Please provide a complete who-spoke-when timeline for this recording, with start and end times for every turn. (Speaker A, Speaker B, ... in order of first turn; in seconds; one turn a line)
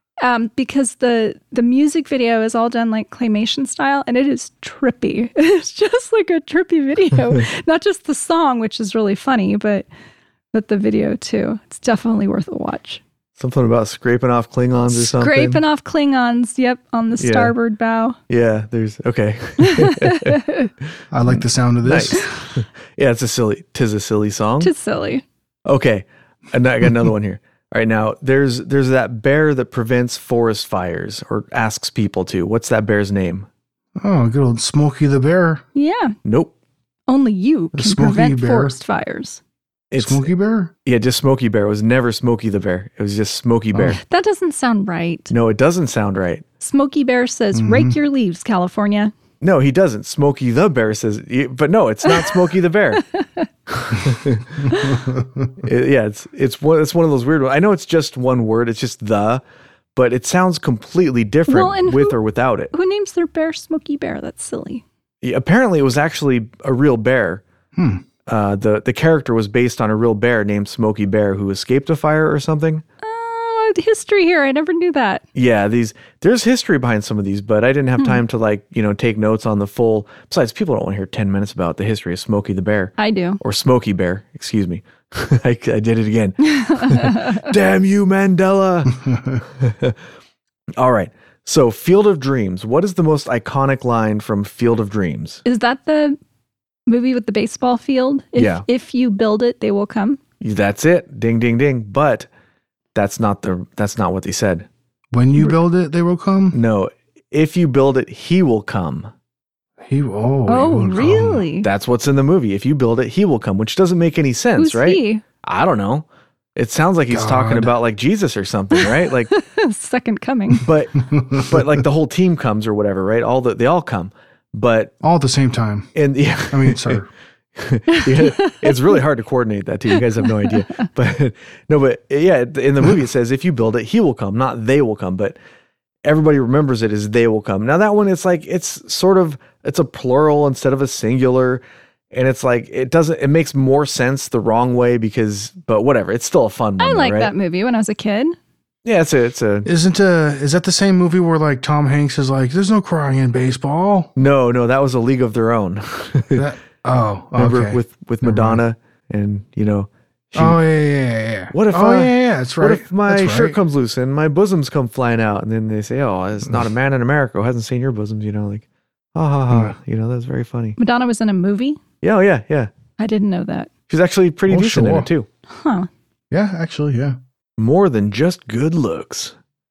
Speaker A: 0.2-9.8
Speaker A: 10.5-13.0
Speaker B: 13.4-15.6
Speaker A: 14.9-18.2
Speaker B: 17.2-17.5
Speaker B: 18.3-20.4
Speaker A: 19.6-20.7
Speaker C: 21.1-22.2
Speaker B: 21.8-24.7
Speaker A: 22.2-22.5
Speaker A: 24.6-25.2
Speaker B: 25.6-33.5
Speaker C: 34.0-35.6
Speaker A: 35.7-36.1
Speaker B: 36.2-36.5
Speaker A: 37.1-39.4
Speaker C: 37.7-38.8
Speaker B: 39.9-40.3
Speaker C: 40.0-40.7
Speaker B: 40.9-44.0
Speaker A: 44.0-45.3
Speaker B: 45.3-46.4
Speaker A: 46.6-49.1
Speaker C: 47.5-48.0
Speaker B: 49.4-53.0
Speaker A: 52.0-52.3
Speaker A: 53.1-53.5
Speaker B: 53.8-54.7
Speaker C: 54.7-55.5
Speaker A: 54.7-54.9
Speaker B: 55.6-59.4
Speaker B: 60.0-62.7
Speaker A: 61.5-62.2
Speaker A: 62.7-64.8
Speaker B: 65.2-67.4
Speaker C: 67.8-68.0
Speaker B: 68.3-72.8
Speaker A: 73.0-75.2
Speaker B: 75.3-90.0
Speaker A: 83.0-83.4
Speaker A: 86.5-87.5
Speaker B: 90.8-95.4
Speaker A: 95.4-96.2
Speaker A: 96.9-100.2
Speaker B: 98.3-98.6
Speaker B: 100.4-102.3
Speaker B: 102.9-104.7
Speaker C: 105.1-106.6
Speaker B: 106.5-109.1
Speaker C: 109.8-111.4
Speaker A: 110.5-111.7
Speaker B: 111.6-119.3
Speaker A: 114.6-115.2
Speaker C: 117.1-117.7
Speaker A: 118.8-120.7
Speaker B: 120.6-124.9
Speaker C: 121.0-121.8
Speaker C: 125.0-125.9
Speaker B: 125.9-127.0
Speaker C: 126.5-127.1
Speaker B: 127.5-135.3
Speaker A: 127.9-128.7
Speaker B: 136.0-147.3
Speaker A: 146.8-148.3
Speaker B: 148.8-149.7
Speaker C: 149.7-154.1
Speaker B: 154.2-156.5
Speaker C: 156.3-158.6
Speaker B: 157.4-160.6
Speaker C: 160.3-163.6
Speaker B: 161.5-168.6
Speaker B: 169.1-170.8
Speaker C: 169.5-169.8
Speaker A: 170.8-171.8
Speaker B: 172.0-172.7
Speaker A: 173.0-173.7
Speaker B: 173.9-175.3
Speaker C: 174.5-175.1
Speaker A: 175.5-175.9
Speaker C: 176.3-177.2
Speaker B: 177.6-179.3